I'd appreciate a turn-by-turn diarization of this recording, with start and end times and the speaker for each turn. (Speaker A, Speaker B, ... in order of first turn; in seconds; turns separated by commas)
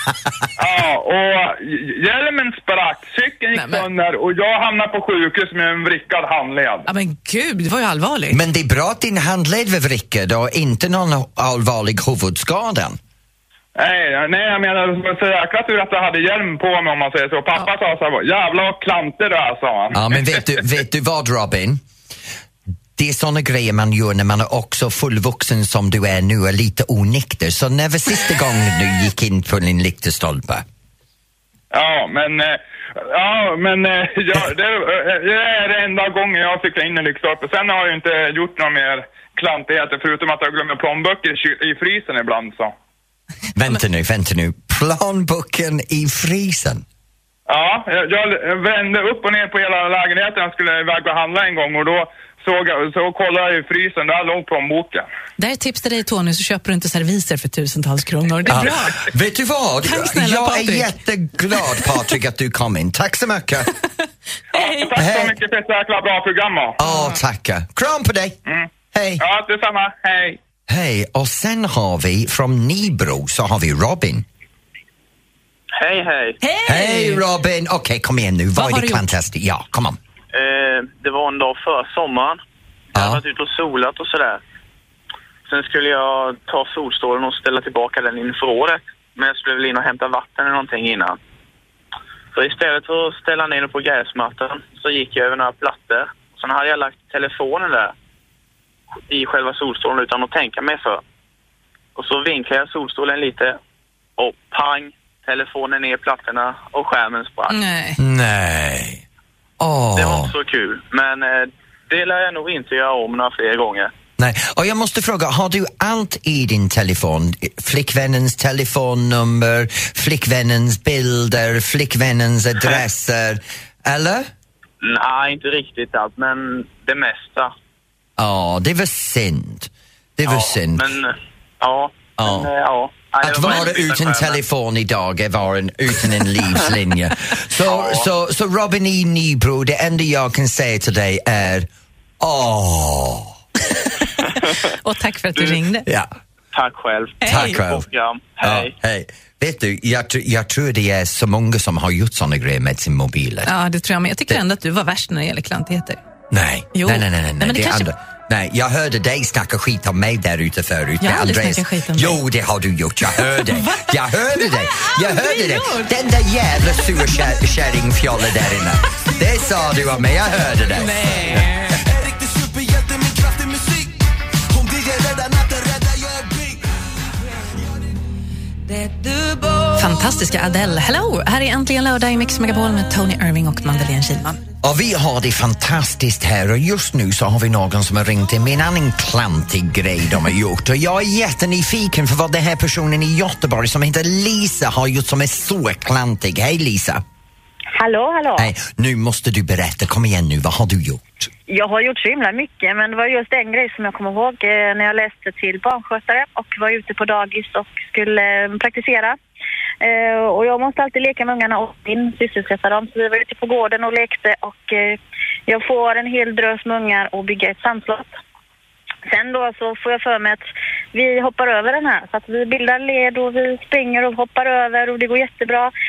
Speaker A: 0.6-6.9, Speaker B: 3.5-3.9, Speaker B: 6.9-8.4, Speaker C: 8.3-13.0, Speaker A: 13.8-20.4, Speaker C: 19.9-21.8, Speaker C: 23.0-30.6, Speaker A: 31.7-32.6, Speaker A: 33.1-42.7, Speaker C: 43.5-46.8, Speaker A: 47.5-55.1, Speaker B: 55.4-59.1, Speaker C: 58.5-63.7, Speaker B: 59.8-60.9, Speaker B: 64.5-65.0, Speaker A: 64.5-66.8, Speaker C: 65.0-65.3, Speaker C: 66.8-68.4, Speaker B: 66.8-67.1, Speaker A: 68.5-70.4, Speaker C: 68.9-69.2, Speaker C: 70.7-74.2, Speaker D: 75.8-76.4, Speaker B: 76.4-77.2, Speaker C: 76.6-80.0, Speaker B: 78.6-79.0, Speaker D: 80.3-82.4, Speaker D: 82.9-84.4, Speaker C: 82.9-83.2, Speaker D: 85.5-91.2, Speaker D: 92.3-97.9, Speaker D: 99.1-101.0, Speaker D: 102.0-103.6, Speaker D: 104.2-107.6, Speaker B: 107.5-108.0, Speaker C: 108.0-109.0, Speaker C: 109.6-110.3, Speaker D: 110.0-113.9, Speaker C: 114.2-124.3, Speaker D: 124.8-127.5, Speaker C: 128.2-130.8, Speaker D: 130.2-134.4, Speaker C: 132.2-132.5, Speaker C: 133.2-141.7, Speaker D: 137.7-138.1, Speaker C: 142.2-143.4, Speaker B: 144.3-145.9, Speaker D: 146.5-148.7, Speaker B: 147.2-147.6, Speaker C: 147.2-147.9, Speaker C: 148.4-153.5, Speaker B: 153.4-156.0, Speaker C: 156.3-171.1, Speaker B: 156.7-157.9, Speaker B: 161.0-162.2, Speaker B: 163.2-165.9, Speaker B: 166.9-167.3, Speaker E: 169.2-169.8, Speaker B: 170.7-171.8, Speaker E: 171.2-176.7, Speaker B: 179.7-184.4, Speaker C: 184.6-197.0, Speaker F: 197.8-198.5, Speaker C: 198.4-201.3, Speaker F: 201.5-209.2, Speaker F: 209.8-218.1, Speaker F: 219.1-220.4, Speaker F: 220.9-225.7